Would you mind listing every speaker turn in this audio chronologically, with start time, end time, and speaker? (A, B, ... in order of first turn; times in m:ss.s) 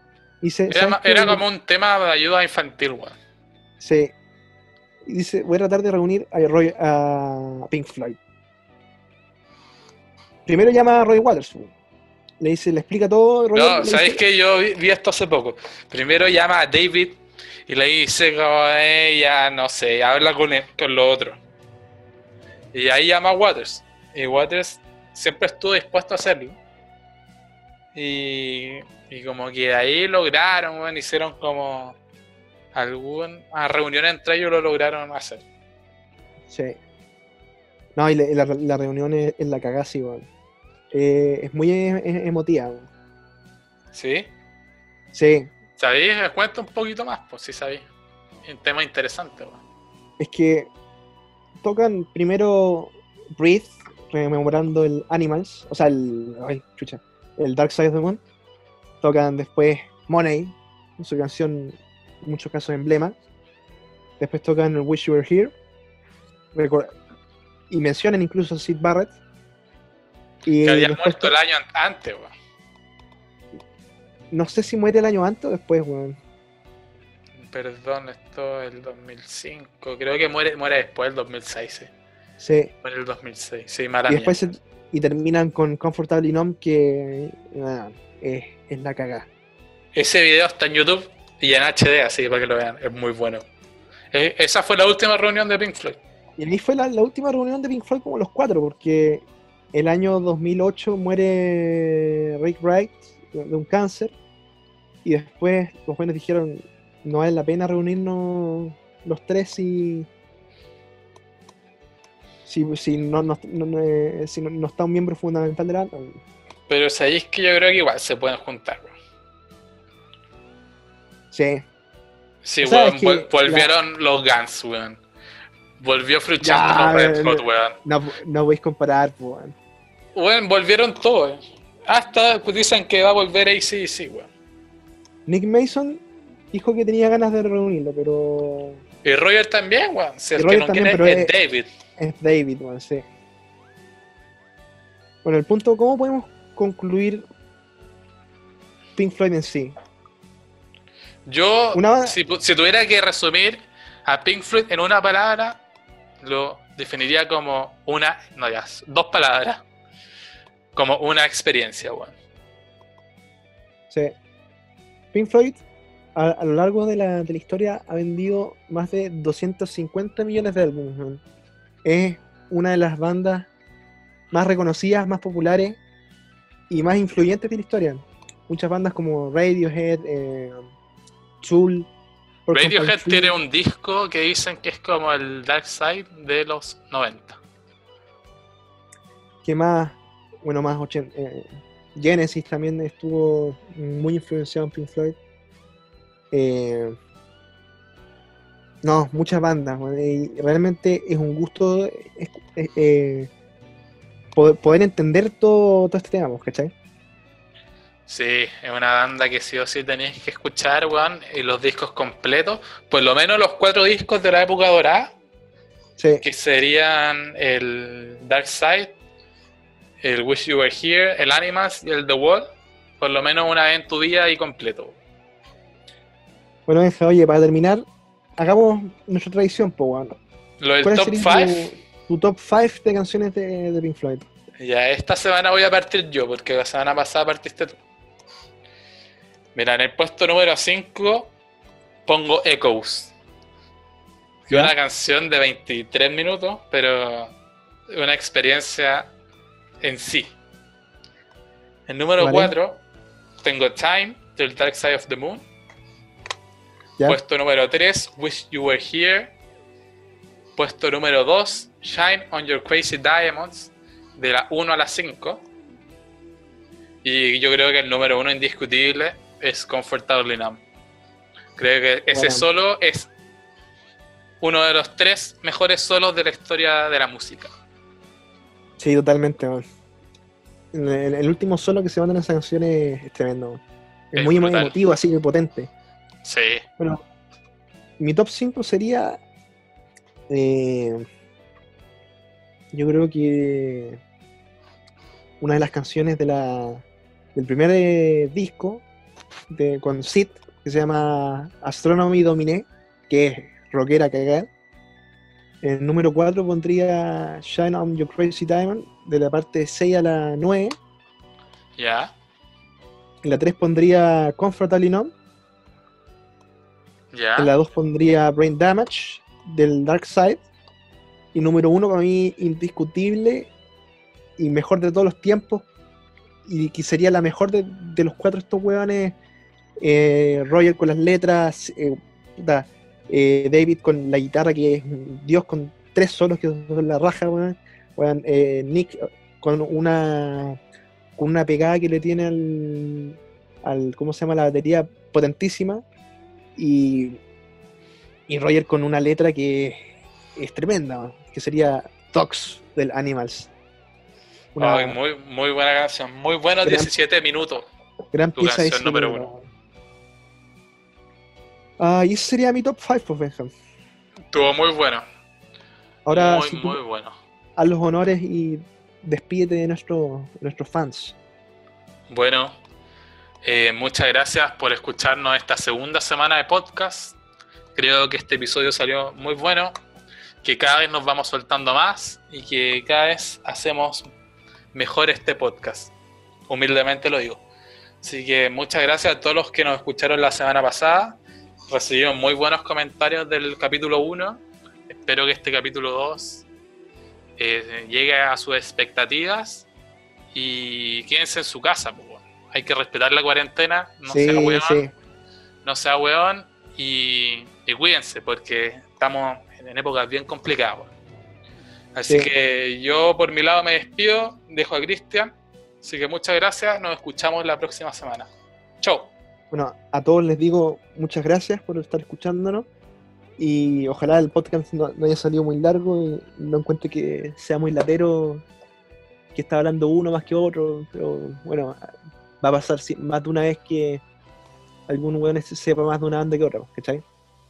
0:00.4-0:01.4 A
0:00.7-0:03.2 B
0:03.8-0:04.1 A
0:05.0-0:08.2 A
0:10.4-0:11.7 A
0:12.4-0:14.2 A
0:13.5-0:21.4 B
0:22.7-0:26.6 B
0:27.9-0:32.0 B
0:32.7-0:35.4 B
0:36.5-0:36.8 A
0:38.0-0:40.3 A
0:40.9-0:42.9 A
0:43.9-0:44.3 B
0:45.1-0:45.5 A
0:45.8-0:47.9 B
0:48.4-0:49.6 B
0:50.2-0:50.7 A
0:51.6-0:58.2 A
0:59.0-1:03.1 A
1:04.2-1:05.5 A
1:06.5-1:06.9 A
1:07.7-1:09.1 A
1:10.4-1:11.3 A
1:10.6-1:12.3 B
1:14.3-1:16.2 A
1:17.4-1:21.9 B
1:22.4-1:22.7 A
1:22.8-1:24.4 B
1:24.1-1:29.3 A
1:29.9-1:33.4 B
1:34.1-1:36.0 B
1:36.4-1:44.1 A
1:45.0-1:50.1 A
1:52.5-1:56.2 A
1:56.7-1:58.9 B
2:01.3-2:01.6 A
2:02.4-2:05.0 B
2:02.6-2:03.7 A
2:05.8-2:07.8 B
2:06.4-2:09.6 A
2:10.1-2:14.3 B
2:15.2-2:18.8 A
2:19.0-2:21.7 B
2:20.4-2:21.3 A
2:22.0-2:23.0 A
2:25.2-2:27.2 A
2:29.0-2:29.7 A
2:31.2-2:35.6 B
2:31.7-2:32.2 A
2:36.2-2:39.6 B
2:40.7-2:42.2 B
2:43.9-2:44.1 A
2:45.1-2:45.6 A
2:46.1-2:51.2 A
2:51.8-2:53.5 A
2:54.3-2:55.8 A
2:56.7-3:00.7 A
3:01.4-3:01.9 A
3:02.5-3:03.3 A
3:02.5-3:07.4 B
3:09.4-3:15.2 A
3:16.3-3:17.0 A
3:18.8-3:23.3 A
3:24.3-3:26.7 A
3:28.1-3:35.1 B
3:36.0-3:36.2 A
3:36.2-3:39.0 B
3:40.0-3:45.0 B
3:46.7-3:47.8 A
3:48.4-3:50.2 A
3:50.6-3:51.7 B
3:50.8-3:54.3 A
3:54.6-3:57.8 B
3:59.5-4:01.3 B
4:02.0-4:03.1 B
4:04.5-4:07.3 B
4:07.9-4:09.1 B
4:09.8-4:10.4 B
4:11.9-4:12.8 B
4:12.2-4:12.5 A
4:13.4-4:15.4 B
4:17.0-4:19.3 B
4:20.6-4:25.4 B
4:27.0-4:30.6 B
4:31.6-4:33.1 B
4:32.1-4:32.4 A
4:34.4-4:37.5 B
4:38.8-4:39.6 A
4:40.7-4:43.6 A
4:44.1-4:45.7 A
4:44.1-4:44.8 B
4:46.2-4:46.6 B
4:48.0-4:49.2 A
4:50.3-4:51.0 A
4:52.7-4:54.0 A
4:55.4-4:56.8 A
4:57.3-4:58.8 A
4:59.5-5:04.5 A
5:05.6-5:10.7 A
5:11.8-5:12.1 B
5:13.2-5:15.1 A
5:17.1-5:17.5 B
5:17.4-5:20.4 A
5:21.3-5:23.5 A
5:24.4-5:25.6 A
5:26.4-5:29.2 A
5:29.8-5:40.6 A
5:41.2-5:45.8 A
5:46.6-5:47.2 A
5:48.3-5:49.8 A
5:50.3-5:53.5 A
5:54.6-5:55.0 A
5:54.6-5:57.7 B
5:56.6-5:56.9 A
5:58.1-5:59.4 A
5:58.4-5:59.3 B
6:01.8-6:03.5 A
6:04.3-6:05.0 B
6:06.0-6:06.8 A
6:06.1-6:07.2 B
6:07.6-6:11.2 A
6:12.1-6:12.5 B
6:13.4-6:17.2 B
6:17.7-6:19.7 B
6:20.4-6:24.1 B
6:24.7-6:25.9 B
6:26.5-6:27.4 B
6:28.0-6:36.4 B
6:37.4-6:39.7 B
6:40.3-6:44.8 B
6:44.1-6:44.9 A
6:45.6-6:50.9 B
6:51.9-6:58.3 B
6:58.8-6:59.1 B
6:59.5-7:02.7 A
7:03.4-7:08.4 A
7:09.3-7:14.0 A
7:14.9-7:17.0 A